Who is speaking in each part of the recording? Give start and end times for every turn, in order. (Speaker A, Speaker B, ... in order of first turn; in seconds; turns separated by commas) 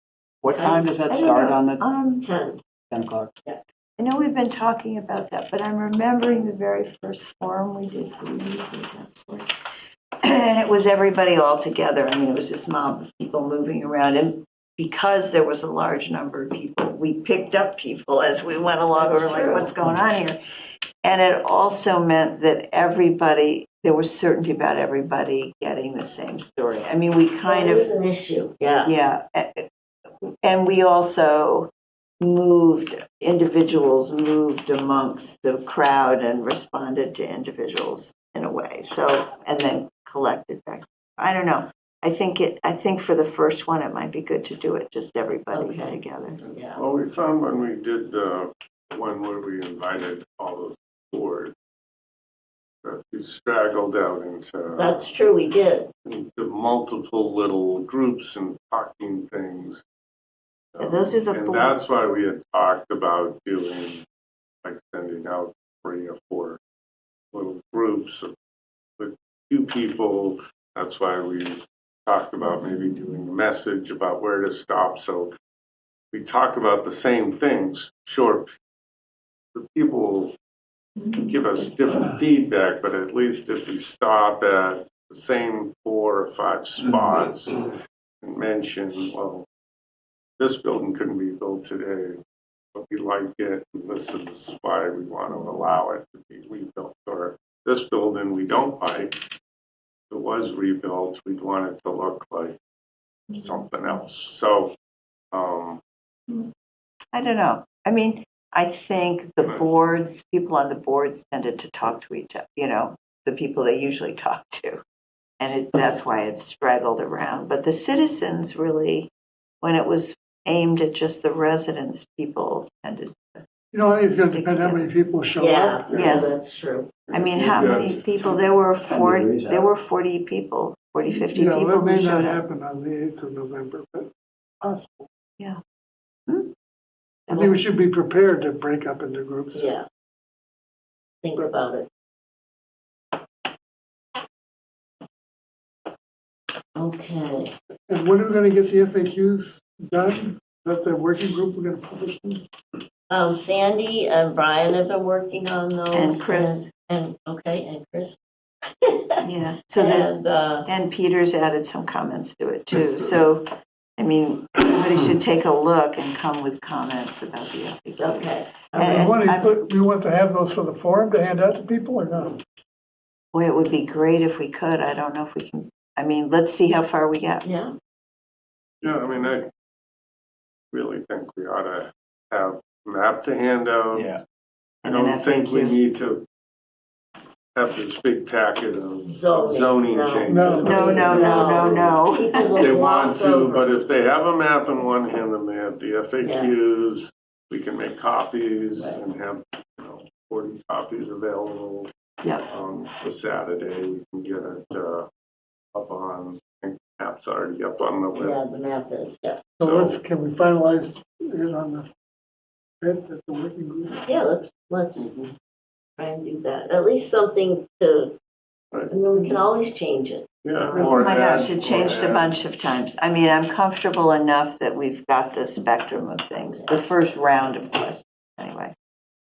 Speaker A: 0.4-1.8, Speaker B: 0.5-0.9, Speaker C: 1.1-2.2, Speaker B: 2.2-2.6, Speaker A: 2.9-3.3, Speaker C: 4.0-9.5, Speaker C: 10.2-20.4, Speaker B: 18.9-19.7, Speaker C: 21.0-27.9, Speaker B: 27.4-28.9, Speaker C: 28.8-29.7, Speaker C: 30.4-31.7, Speaker C: 32.2-46.4, Speaker B: 45.5-46.8, Speaker D: 46.8-51.5, Speaker D: 52.8-55.0, Speaker B: 54.8-55.9, Speaker D: 56.0-59.8, Speaker D: 60.7-64.0, Speaker C: 60.8-61.7, Speaker D: 64.6-66.6, Speaker D: 67.3-68.3, Speaker D: 69.0-75.3, Speaker D: 76.1-78.5, Speaker D: 79.5-80.3, Speaker D: 81.1-87.6, Speaker D: 88.2-89.5, Speaker D: 90.4-92.2, Speaker D: 92.7-99.2, Speaker D: 100.1-102.6, Speaker D: 103.3-104.7, Speaker D: 105.3-105.8, Speaker C: 107.1-114.8, Speaker D: 109.4-109.7, Speaker C: 115.4-119.1, Speaker C: 119.6-123.4, Speaker E: 123.7-126.3, Speaker C: 124.3-124.8, Speaker B: 125.4-126.9, Speaker C: 125.9-126.3, Speaker D: 127.1-128.4, Speaker C: 127.1-132.4, Speaker A: 128.8-129.7, Speaker E: 131.1-135.1, Speaker C: 137.3-137.6, Speaker E: 137.3-139.7, Speaker B: 139.5-139.8, Speaker B: 141.2-141.9, Speaker B: 146.8-147.5, Speaker E: 147.9-152.4, Speaker B: 153.1-158.2, Speaker C: 155.9-156.7, Speaker B: 158.8-159.2, Speaker C: 159.2-163.4, Speaker B: 159.7-160.7, Speaker C: 164.0-169.5, Speaker B: 168.0-169.2, Speaker E: 168.8-172.4, Speaker C: 173.3-177.4, Speaker B: 177.4-177.7, Speaker D: 178.8-179.5, Speaker D: 180.7-184.2, Speaker A: 183.9-184.2, Speaker C: 184.8-185.8, Speaker D: 184.8-186.2, Speaker D: 187.5-191.9, Speaker B: 189.1-193.7, Speaker E: 190.3-191.2, Speaker C: 190.6-192.7, Speaker D: 192.6-201.9, Speaker B: 196.2-196.5, Speaker B: 198.8-199.0, Speaker D: 202.5-205.1, Speaker D: 205.7-208.4, Speaker B: 208.2-209.4, Speaker E: 209.6-211.9, Speaker D: 209.6-210.0, Speaker E: 212.8-214.0, Speaker B: 214.0-215.1, Speaker D: 214.9-215.3, Speaker B: 216.0-218.1, Speaker B: 218.9-220.3, Speaker D: 220.4-222.3, Speaker E: 220.7-221.0, Speaker C: 220.9-228.7, Speaker B: 226.5-226.7